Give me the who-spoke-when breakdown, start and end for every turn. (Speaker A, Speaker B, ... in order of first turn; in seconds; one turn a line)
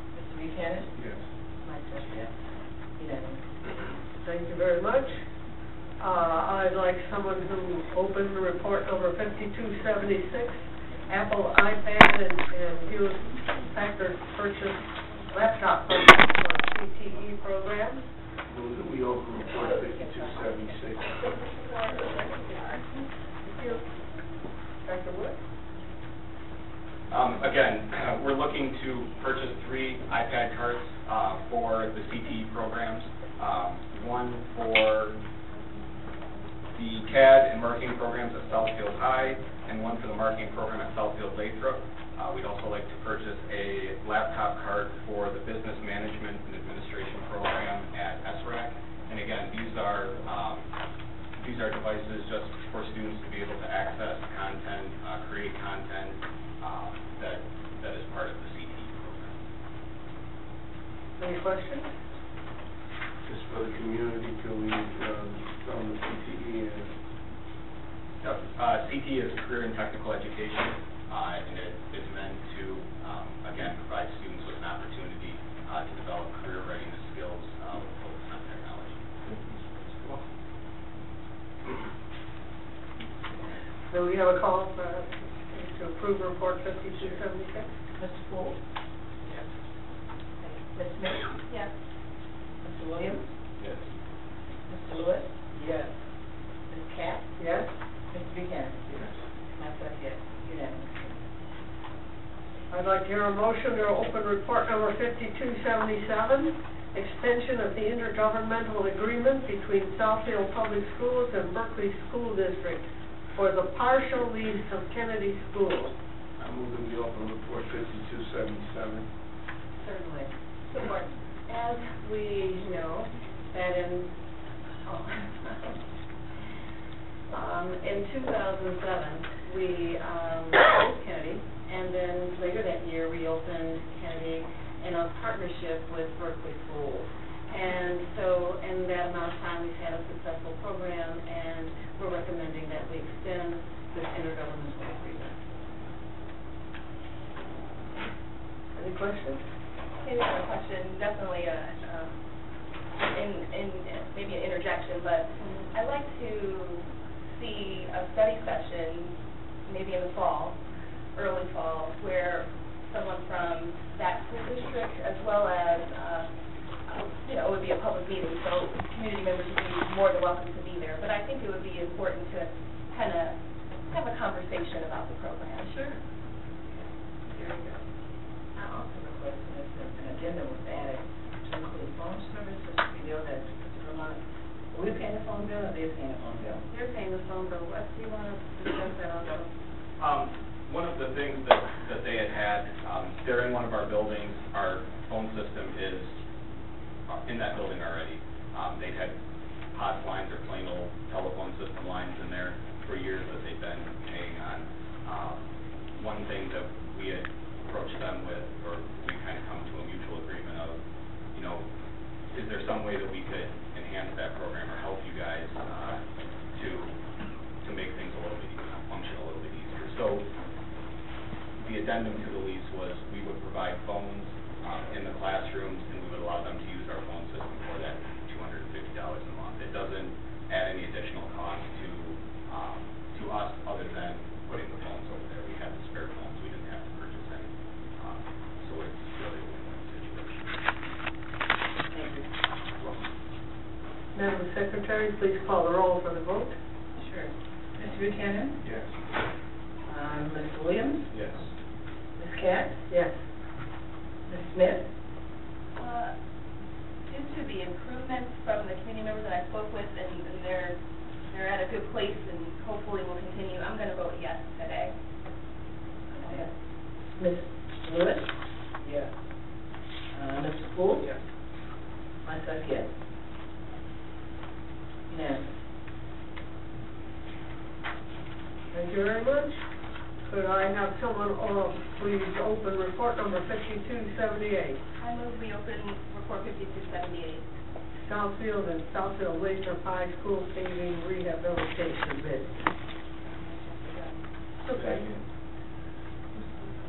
Speaker A: 0.1-0.9
Speaker B: 0.9-1.3
Speaker A: 1.6-2.3
Speaker A: 3.0-3.4
Speaker C: 4.2-5.2
Speaker C: 6.0-18.1
Speaker B: 18.5-21.2
Speaker C: 23.4-23.8
Speaker C: 24.8-25.4
Speaker D: 27.1-35.2
Speaker D: 36.7-50.7
Speaker D: 51.4-59.4
Speaker C: 61.2-61.9
Speaker B: 63.3-67.0
Speaker D: 68.2-79.1
Speaker B: 79.3-80.2
Speaker C: 83.9-87.7
Speaker A: 88.0-88.6
Speaker A: 90.4-91.3
Speaker A: 92.6-93.3
Speaker A: 94.7-95.9
Speaker A: 96.7-97.3
Speaker C: 97.4-97.7
Speaker A: 98.1-101.2
Speaker C: 102.7-116.0
Speaker B: 116.4-119.1
Speaker E: 119.8-124.1
Speaker E: 124.9-125.8
Speaker E: 127.3-145.4
Speaker C: 148.8-149.4
Speaker F: 150.0-152.1
Speaker F: 153.0-160.6
Speaker F: 161.1-166.3
Speaker F: 166.9-175.8
Speaker E: 175.7-176.0
Speaker E: 177.3-177.8
Speaker A: 178.6-184.2
Speaker A: 184.7-186.6
Speaker E: 186.7-189.5
Speaker D: 190.0-196.2
Speaker D: 197.1-199.2
Speaker D: 199.7-205.4
Speaker D: 206.0-210.8
Speaker D: 211.3-211.7
Speaker D: 212.3-216.0
Speaker D: 216.5-217.0
Speaker D: 217.6-220.3
Speaker D: 221.6-240.6
Speaker A: 241.9-242.3
Speaker C: 244.1-246.6
Speaker A: 247.0-248.6
Speaker B: 248.6-249.0
Speaker A: 249.9-251.1
Speaker B: 251.1-251.5
Speaker A: 252.2-252.8
Speaker C: 252.9-253.2
Speaker A: 254.3-254.9
Speaker F: 255.8-256.1
Speaker F: 257.1-260.8
Speaker F: 261.3-264.9
Speaker A: 266.1-266.5
Speaker A: 267.1-268.3
Speaker A: 268.8-269.1
Speaker A: 270.1-271.1
Speaker A: 272.2-272.9
Speaker A: 275.1-275.4
Speaker C: 278.7-279.6
Speaker C: 280.2-284.8
Speaker F: 285.0-287.5
Speaker C: 288.1-292.5
Speaker C: 294.6-295.1
Speaker B: 294.7-295.2